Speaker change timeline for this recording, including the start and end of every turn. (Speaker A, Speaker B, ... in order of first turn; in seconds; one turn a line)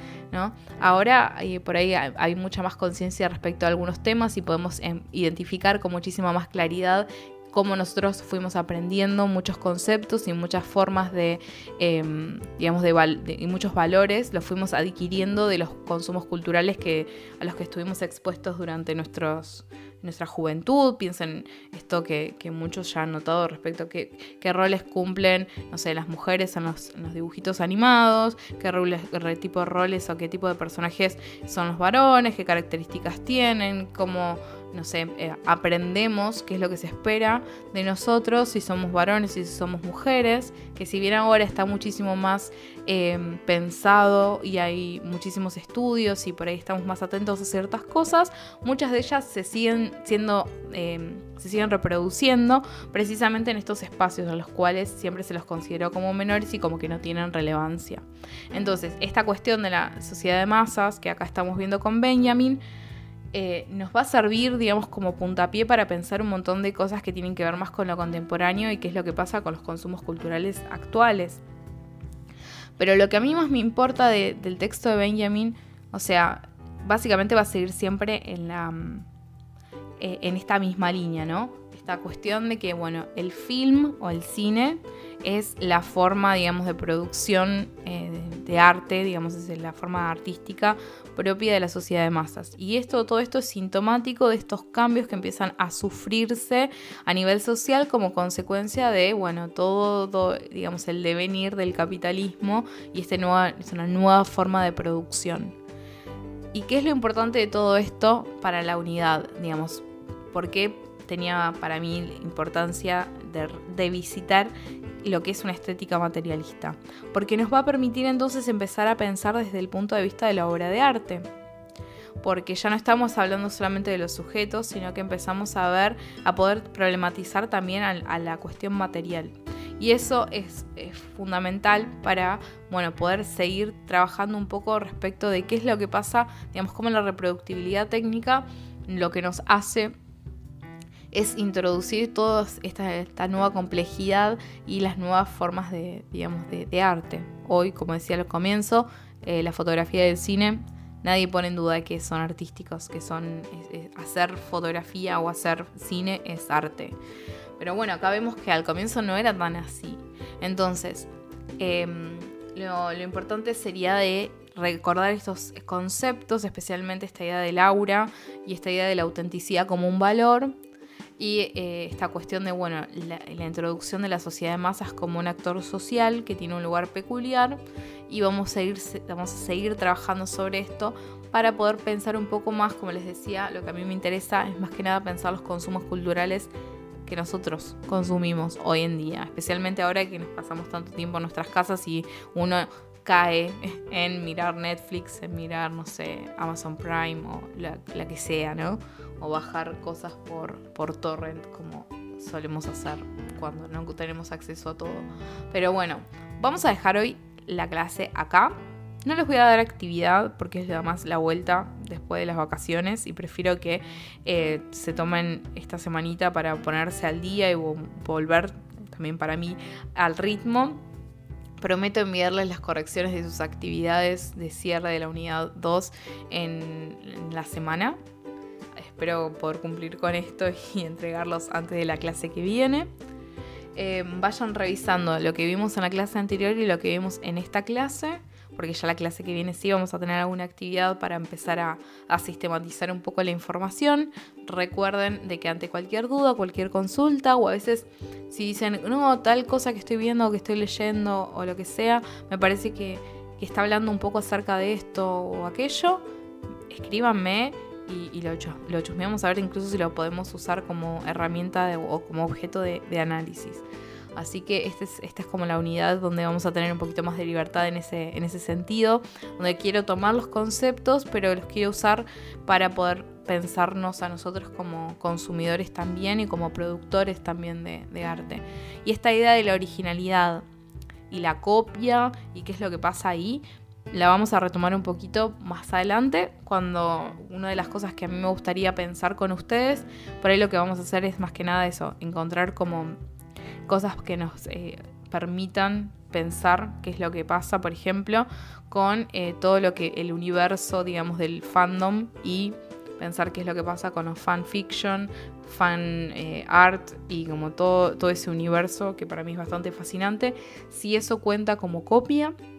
Speaker A: 0.3-62.6
Speaker A: 63.3-71.4
Speaker A: 72.8-79.1
Speaker A: 80.0-105.6
Speaker A: 106.5-114.5
Speaker A: 115.0-121.3
Speaker A: 122.2-139.9
Speaker A: 141.1-157.0
Speaker A: 157.6-170.6
Speaker A: 171.2-186.5
Speaker A: 187.1-220.8
Speaker A: 221.6-228.0
Speaker A: 228.8-232.9
Speaker A: 233.8-256.1
Speaker A: 256.7-263.6
Speaker A: 264.1-280.4
Speaker A: 281.1-292.9
Speaker A: 293.7-312.4